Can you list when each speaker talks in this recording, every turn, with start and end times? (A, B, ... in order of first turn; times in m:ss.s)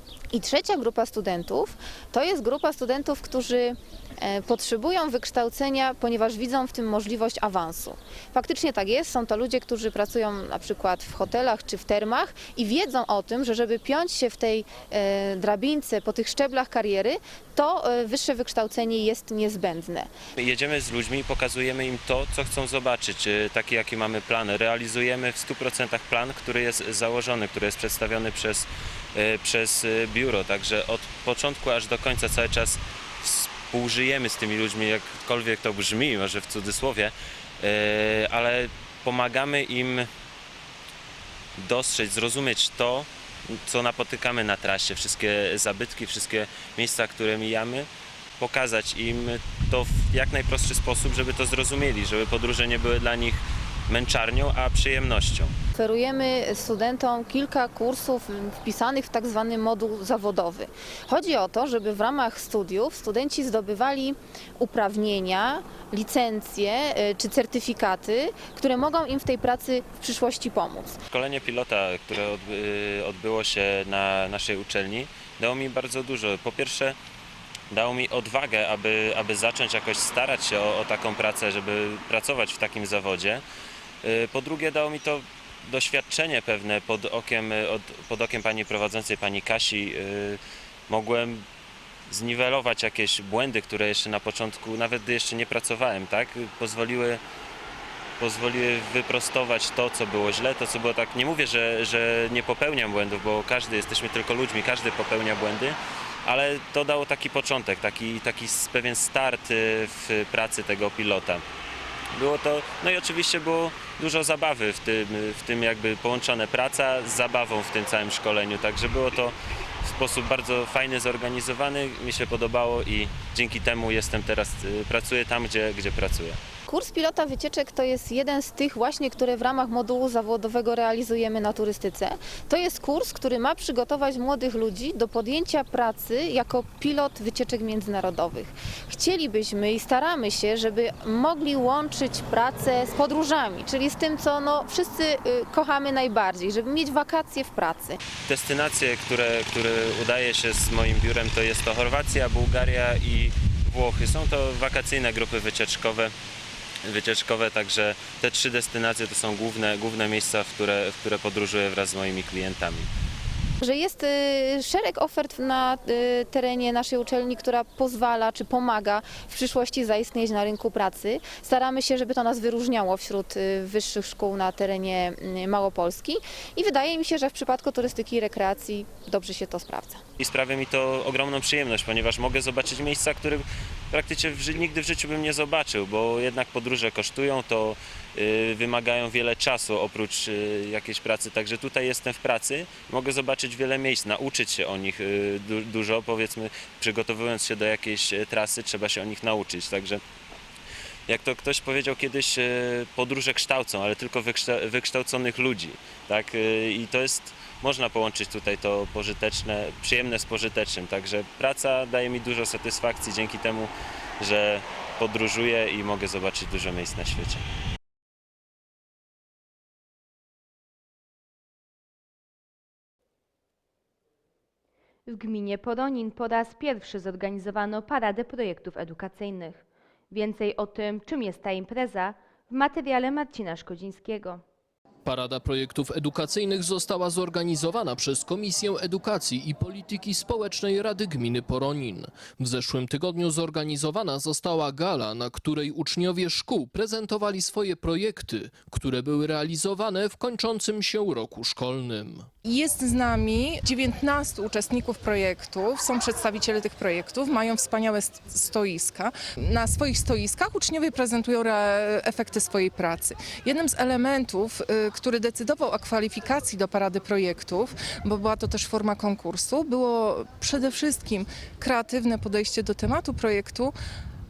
0:00.3-0:20.1 A
0:20.4-0:40.1 B
0:41.6-0:47.9 B
0:48.4-0:55.5 B
0:55.7-1:11.0 A
1:11.1-1:17.0 B
1:17.7-1:23.4 B
1:24.0-1:31.4 B
1:32.1-1:37.2 B
1:38.2-1:51.4 B
1:52.1-2:06.4 B
2:06.7-2:28.0 A
2:28.2-2:36.1 B
2:36.8-2:42.9 B
2:43.6-3:00.0 A
3:00.2-3:20.0 B
3:21.1-3:37.4 B
3:45.0-3:54.4 C
3:55.0-4:12.3 D
4:12.4-4:33.7 E